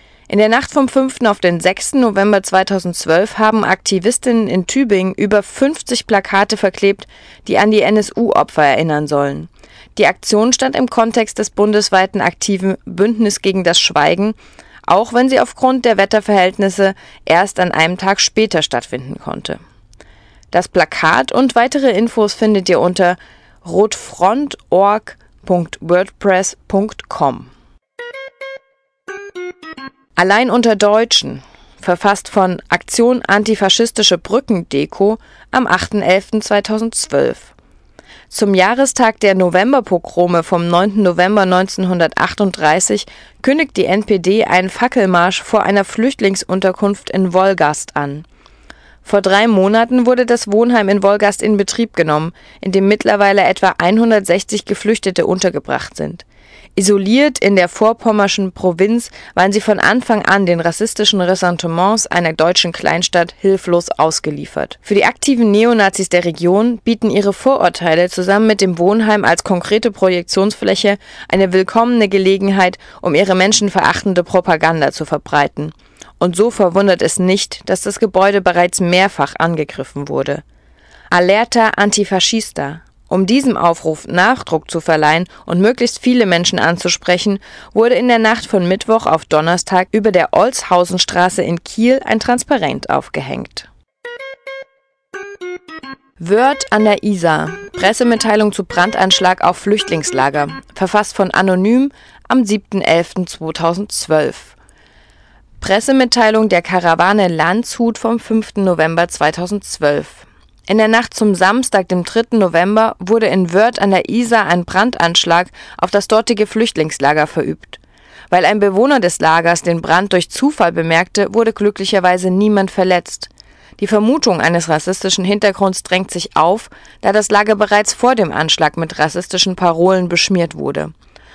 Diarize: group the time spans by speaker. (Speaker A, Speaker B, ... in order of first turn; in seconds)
Speaker A: 0.3-14.3, 14.9-19.6, 20.5-27.5, 30.2-37.5, 38.3-48.2, 49.0-56.2, 56.8-80.4, 81.1-93.7, 96.2-104.5, 105.6-130.9